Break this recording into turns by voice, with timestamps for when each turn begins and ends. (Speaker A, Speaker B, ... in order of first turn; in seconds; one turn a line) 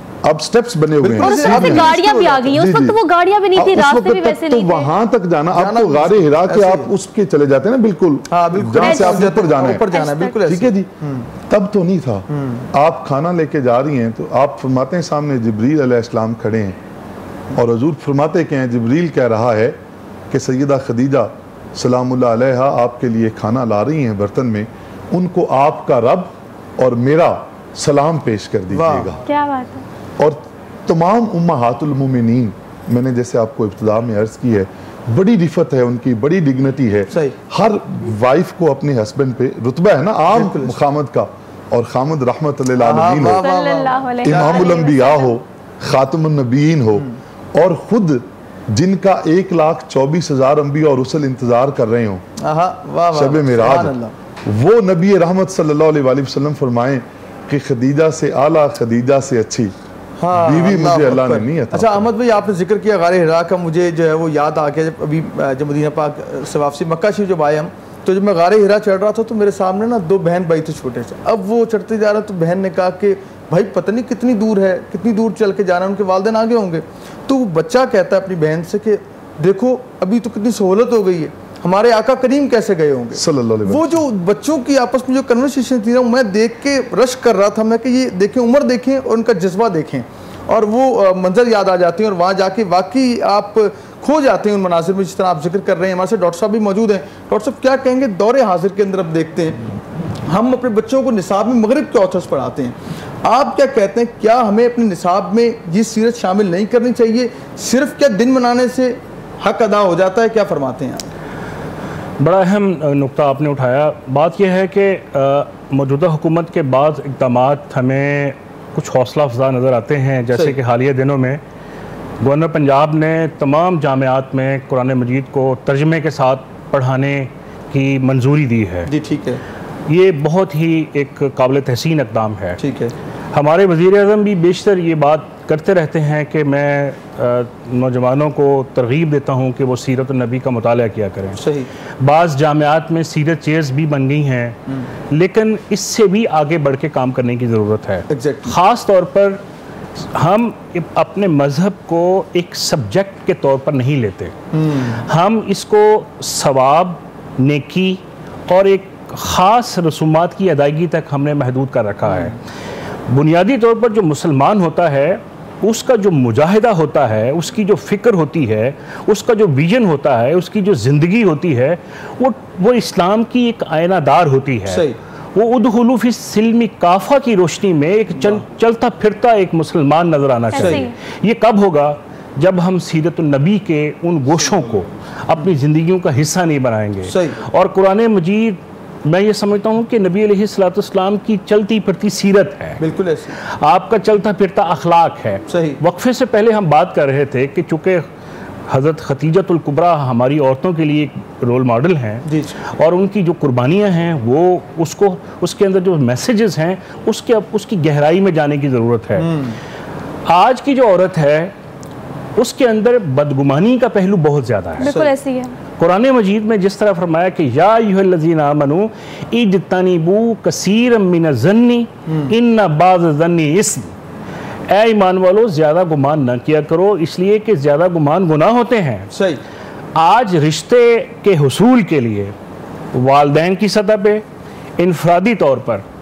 Speaker A: 0.2-1.9
Speaker B: 1.0-2.5
Speaker C: 1.2-4.9
Speaker A: 2.5-3.0
Speaker A: 3.5-9.8
Speaker B: 5.5-6.9
Speaker B: 8.3-11.3
Speaker C: 8.8-10.3
Speaker A: 10.4-10.9
Speaker A: 11.5-16.8
Speaker B: 12.3-12.7
Speaker A: 17.6-19.8
Speaker A: 20.3-29.2
Speaker B: 28.7-29.1
Speaker C: 29.2-29.8
Speaker A: 30.2-43.4
Speaker B: 40.3-40.8
Speaker B: 42.8-44.8
Speaker C: 43.4-45.3
Speaker A: 44.2-52.2
Speaker B: 52.4-54.1
Speaker A: 53.1-53.9
Speaker A: 54.5-59.7
Speaker B: 60.2-99.6
Speaker A: 60.3-62.1
Speaker A: 83.1-84.0
Speaker B: 100.3-111.0
Speaker D: 112.2-121.4
Speaker D: 122.2-128.9
Speaker B: 128.9-129.4
Speaker D: 129.9-132.6
Speaker B: 132.6-132.9
Speaker D: 133.3-141.4
Speaker B: 141.4-141.7
Speaker D: 142.0-144.6
Speaker D: 145.1-149.4
Speaker B: 148.1-148.5
Speaker D: 150.1-154.3
Speaker B: 154.5-155.0
Speaker D: 155.1-162.4
Speaker B: 162.1-162.3
Speaker D: 163.1-192.8
Speaker B: 174.7-175.0
Speaker C: 180.5-180.9
Speaker B: 180.6-180.8
Speaker B: 187.1-187.4
Speaker B: 192.8-193.3
Speaker D: 193.6-198.0
Speaker B: 195.5-195.8
Speaker D: 198.7-209.3
Speaker B: 202.3-202.5
Speaker B: 209.2-209.6
Speaker D: 210.3-211.5
Speaker D: 212.4-214.9
Speaker C: 214.8-215.5
Speaker B: 214.8-215.1
Speaker D: 215.8-223.9
Speaker D: 224.7-229.1
Speaker B: 229.1-229.4
Speaker D: 229.9-232.3
Speaker D: 232.9-234.2
Speaker D: 234.8-235.8